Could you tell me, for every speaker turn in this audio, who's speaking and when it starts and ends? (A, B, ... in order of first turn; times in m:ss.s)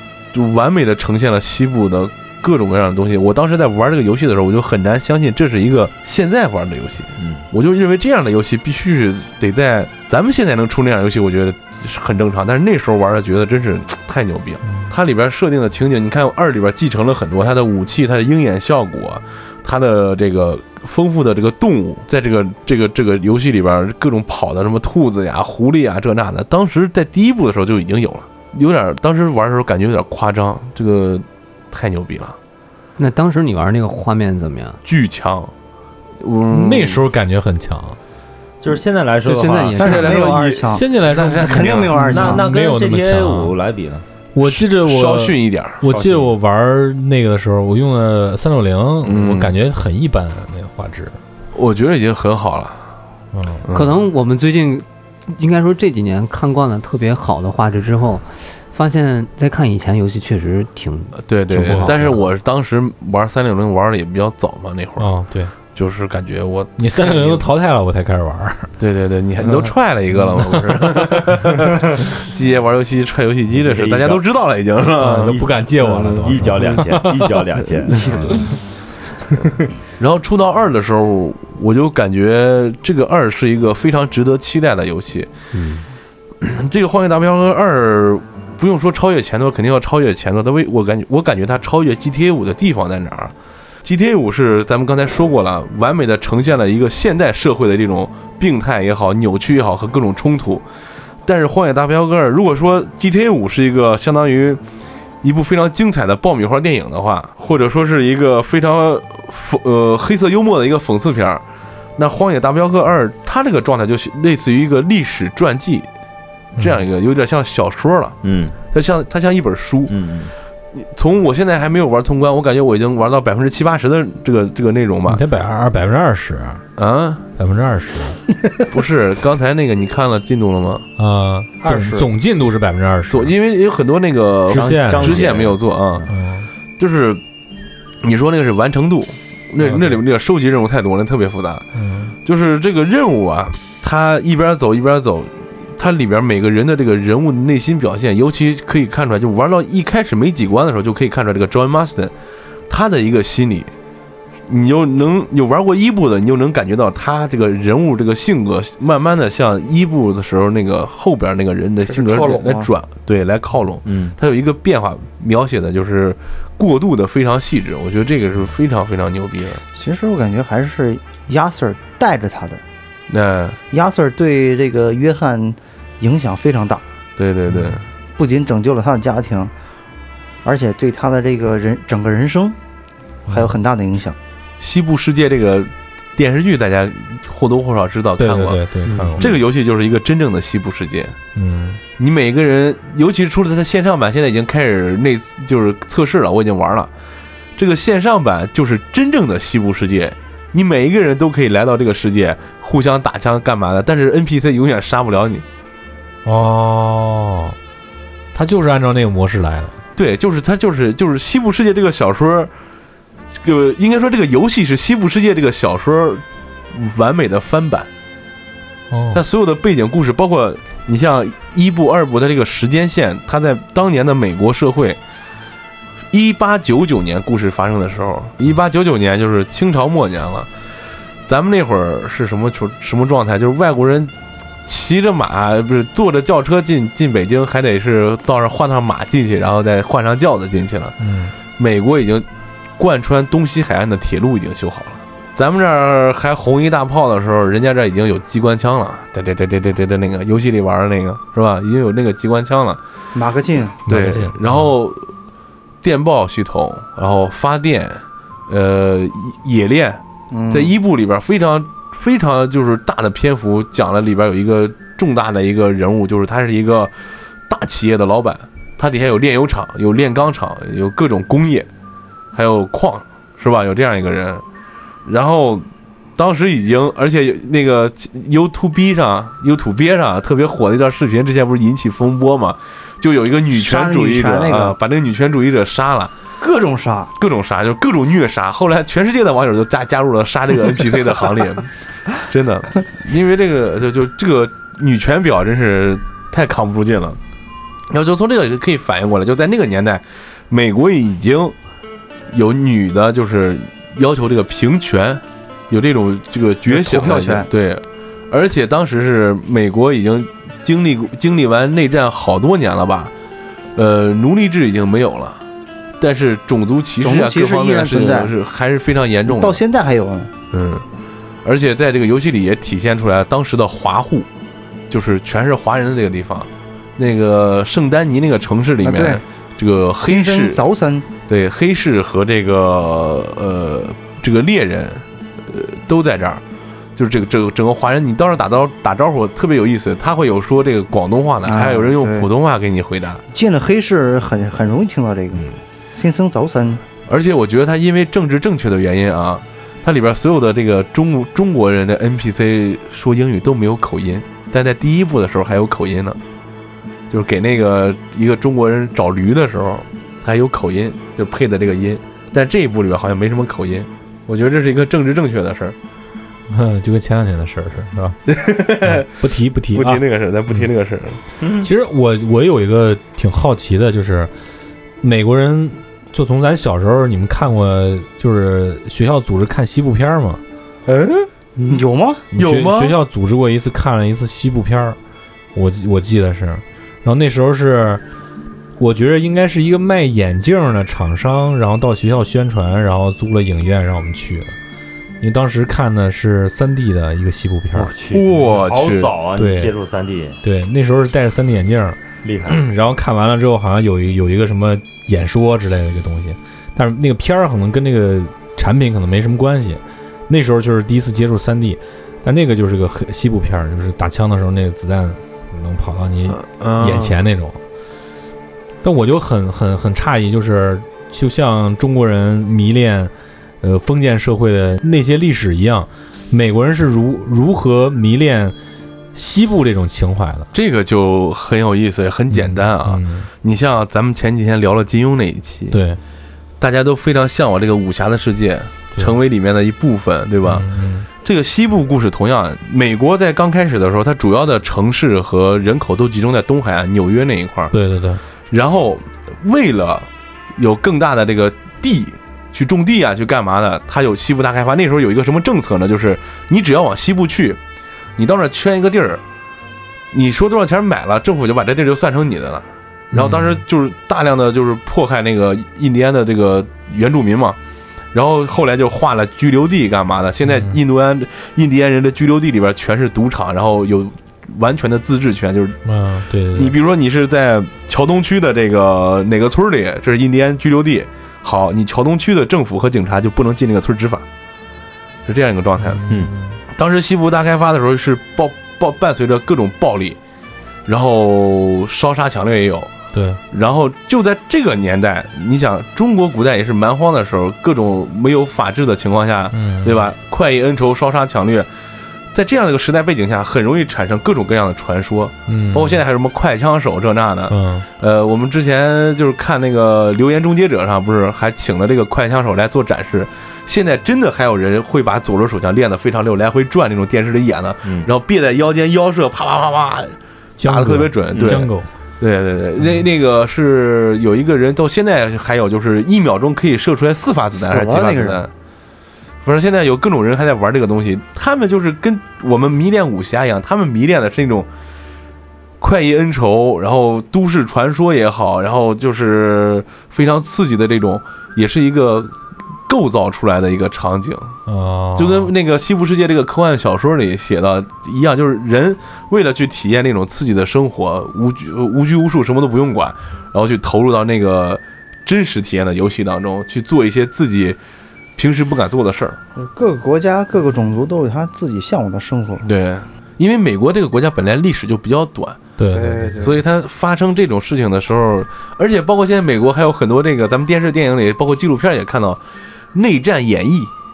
0:00.3-0:32.4 A
0:07.2-0:07.4 B
0:14.6-0:14.9 C
0:33.0-0:34.8 D
0:34.8-0:35.5 A
0:36.2-0:37.0 A
0:36.5-0:38.0 C
0:38.6-0:40.0 B
0:39.2-0:40.3 D
0:39.8-0:40.8 E
0:39.8-0:42.0 A
0:40.7-0:43.5 C
0:41.4-0:42.4 E
0:41.9-0:44.0 B
0:44.3-0:51.2 C
0:44.4-0:45.8 A
0:45.9-0:46.3 B
0:49.0-0:49.5 A
0:51.5-0:52.8 A
0:53.3-0:53.6 C
0:53.6-0:54.0 A
0:53.7-1:02.2 D
1:01.2-1:05.1 A
1:01.6-1:01.9 C
1:05.0-1:05.5 C
1:05.7-1:07.4 A
1:06.8-1:08.7 C
1:08.8-1:15.4 A
1:10.3-1:10.9 B
1:13.5-1:14.2 B
1:15.0-1:17.4 C
1:15.2-1:18.5 B
1:20.0-1:25.3 A
1:25.5-1:25.9 B
1:26.4-1:33.3 A
1:33.8-1:40.6 A
1:41.2-1:44.6 A
1:45.2-1:51.4 A
1:52.0-1:55.9 A
1:56.6-1:56.8 C
1:56.6-2:00.0 A
1:58.2-1:58.6 B
1:59.9-2:00.3 B
2:00.7-2:05.2 A
2:05.1-2:06.6 C
2:06.8-2:07.2 A
2:07.4-2:08.2 C
2:08.7-2:10.8 A
2:11.0-2:13.3 C
2:11.6-2:12.1 E
2:13.1-2:16.1 A
2:14.5-2:15.4 C
2:14.5-2:15.6 B
2:16.1-2:16.5 C
2:16.8-2:17.2 A
2:18.0-2:21.6 A
2:19.6-2:20.0 C
2:21.7-2:22.1 C
2:22.2-2:32.1 A
2:32.7-2:33.7 A
2:34.5-2:49.6 A
2:41.9-2:42.7 E
2:43.8-2:44.1 B
2:49.7-2:52.6 E
2:53.1-2:53.6 A
2:53.7-2:56.8 E
2:57.2-2:57.8 A
2:58.2-2:59.5 E
3:00.4-3:02.6 E
3:03.3-3:04.2 E
3:04.6-3:11.2 A
3:08.2-3:09.3 C
3:11.3-3:11.8 C
3:12.0-3:16.9 A
3:17.6-3:25.4 A
3:26.2-3:27.6 C
3:28.3-3:29.8 C
3:30.0-3:32.5 A
3:33.4-3:37.9 A
3:38.9-3:39.2 C
3:39.1-3:45.0 A
3:46.1-3:50.5 A
3:51.2-3:54.1 A
3:54.6-4:01.0 A
4:01.0-4:01.3 C
4:01.5-4:02.2 A
4:02.8-4:12.8 A
4:13.1-4:13.8 E
4:13.9-4:14.7 C
4:13.9-4:15.1 A
4:15.8-4:26.9 A
4:20.3-4:20.8 E
4:27.5-4:31.7 A
4:32.3-4:34.4 A
4:35.0-4:35.6 A
4:36.2-4:46.1 A
4:43.5-4:44.8 E
4:46.4-4:47.1 E
4:47.2-4:57.2 A
4:57.9-5:01.5 A
5:02.3-5:13.1 A
5:06.6-5:07.5 E
5:13.8-5:15.4 A
5:16.0-5:19.6 A
5:17.0-5:18.3 E
5:19.2-5:20.3 E
5:20.5-5:20.8 A
5:21.4-5:24.3 A
5:24.9-5:30.6 A
5:28.8-5:29.2 E
5:30.0-5:31.1 E
5:31.3-5:36.4 A
5:37.0-5:43.2 A
5:41.4-5:42.3 E
5:43.3-5:46.8 E
5:47.1-5:56.2 A
5:57.1-6:05.8 A
6:06.5-6:08.2 C
6:08.3-6:09.1 A
6:08.8-6:10.7 C
6:09.7-6:11.2 A
6:11.6-6:14.3 C
6:15.0-6:20.4 C
6:20.9-6:21.3 A
6:21.7-6:22.2 E
6:22.3-6:25.0 C
6:22.3-6:23.0 A
6:25.5-6:28.0 C
6:28.8-6:34.5 C
6:35.2-6:37.9 C
6:37.7-6:40.4 B
6:38.1-6:39.2 A
6:39.4-6:39.7 C
6:40.4-6:57.6 C
6:42.2-6:42.6 B
6:56.3-6:57.2 A
6:58.8-7:08.5 C
7:09.1-7:10.5 C
7:10.5-7:15.8 A
7:12.3-7:13.3 C
7:15.7-7:16.0 C
7:16.6-7:20.6 A
7:20.4-7:21.1 C
7:21.2-7:27.7 A
7:27.7-7:28.2 C
7:28.5-7:37.6 A
7:38.2-7:39.2 A
7:40.1-7:47.6 A
7:43.1-7:43.6 C
7:48.1-7:55.8 A
7:50.4-7:50.8 C
7:55.8-7:56.7 C
7:56.5-8:04.2 A
8:05.2-8:06.0 A
8:05.8-8:06.6 C
8:06.7-8:10.2 A
8:10.8-8:12.9 A
8:13.1-8:13.4 C
8:13.5-8:21.7 A
8:19.5-8:20.1 C
8:22.3-8:41.7 A
8:25.5-8:26.0 C
8:27.5-8:27.8 C
8:40.6-8:41.9 C
8:41.3-8:41.6 B
8:42.2-8:48.5 A
8:47.5-8:48.4 E
8:49.4-8:54.7 A
8:55.8-9:02.3 A
9:02.9-9:04.6 A
9:04.7-9:05.5 C
9:05.2-9:17.8 A
9:18.4-9:19.4 A
9:19.6-9:22.6 E
9:22.6-9:25.6 A
9:25.8-9:26.3 C
9:25.9-9:26.6 E
9:26.4-9:32.4 A
9:32.9-9:33.9 A